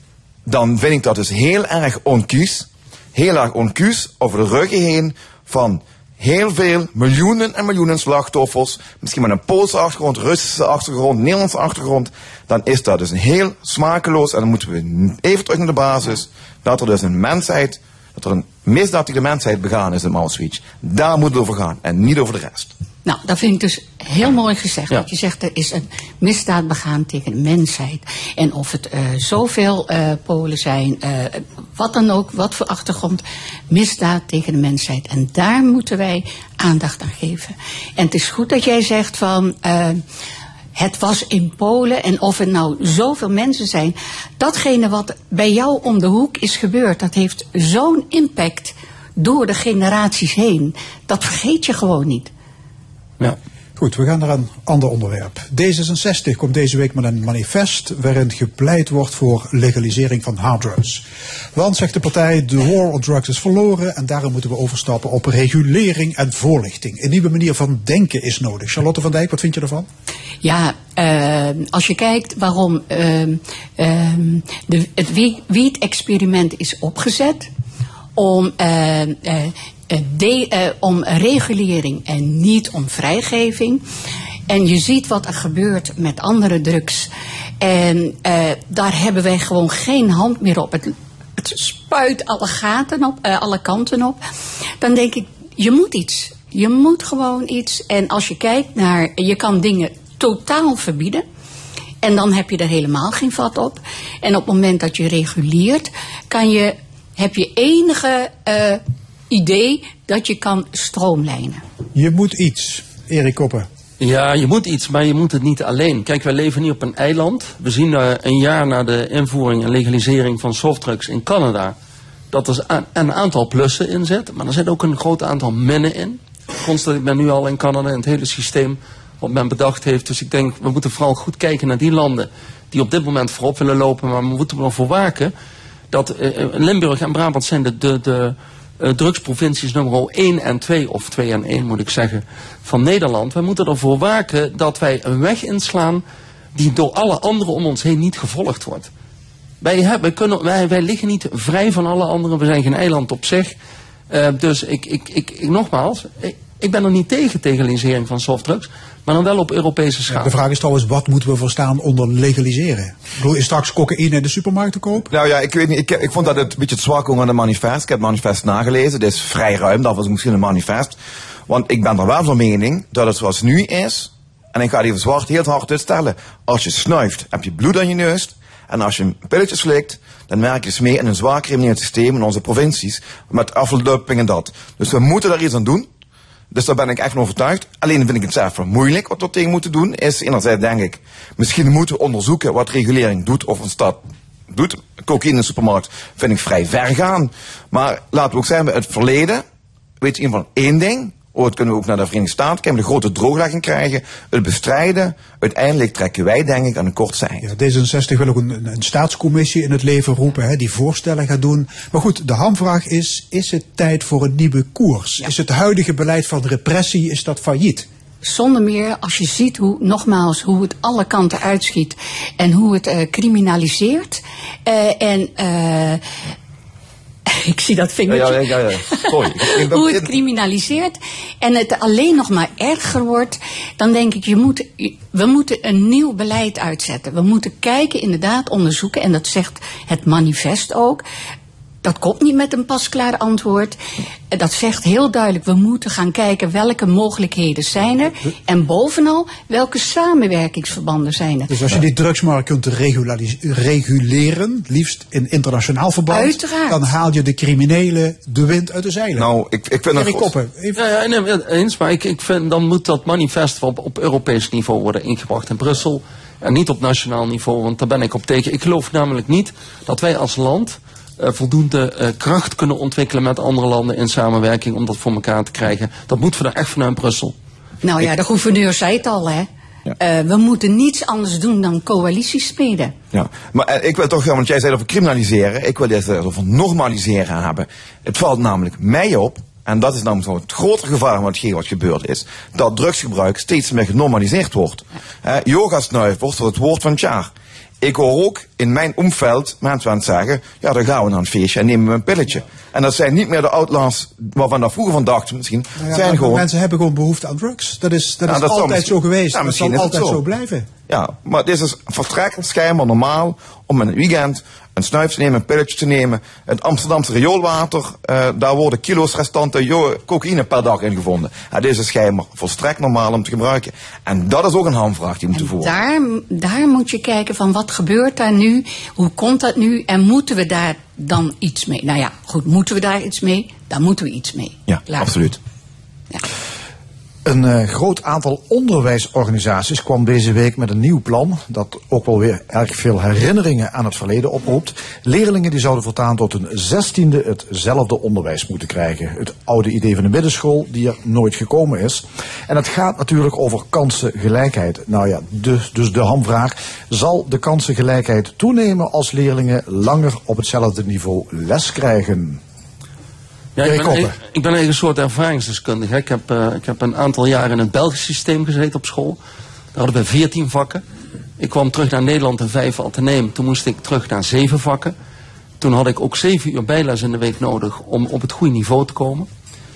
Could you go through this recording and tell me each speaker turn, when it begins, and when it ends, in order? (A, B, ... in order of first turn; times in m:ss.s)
0:00.5-0:22.7 A
0:23.0-0:40.0 B
0:40.8-0:52.3 B
0:53.8-1:01.0 C
1:01.6-1:09.9 C
1:10.4-1:17.5 B
1:18.2-1:23.8 B
1:24.5-1:27.1 B
1:27.6-1:34.2 B
1:34.8-1:41.2 B
1:42.0-1:51.6 B
1:52.0-1:53.7 C
1:54.0-2:01.8 D
2:02.3-2:15.3 D
2:15.9-2:26.0 D
2:26.6-2:28.9 D
2:29.6-2:33.6 D
2:34.1-2:40.4 D
2:40.1-2:45.1 C
2:45.1-2:51.0 A
2:51.5-3:05.9 A
3:06.5-3:19.4 A
3:20.0-3:27.5 A
3:27.4-3:37.9 C
3:38.2-3:46.0 B
3:47.3-4:01.0 B
3:48.1-3:50.1 A
4:01.8-4:03.8 B
4:04.3-4:11.7 B
4:11.5-4:19.3 C
4:16.1-4:16.8 B
4:19.1-4:20.3 A
4:19.9-4:20.8 C
4:20.8-4:37.4 D
4:37.8-4:39.5 B
4:40.0-4:43.0 B
4:43.1-5:06.5 A
5:05.8-5:10.7 C
5:08.2-5:10.2 A
5:10.9-5:25.8 A
5:25.4-5:35.2 B
5:34.7-5:35.4 A
5:37.2-6:02.4 E
6:03.6-6:09.2 D
6:03.6-6:04.2 E
6:09.7-6:10.8 D
6:11.4-6:15.0 D
6:15.6-6:19.3 D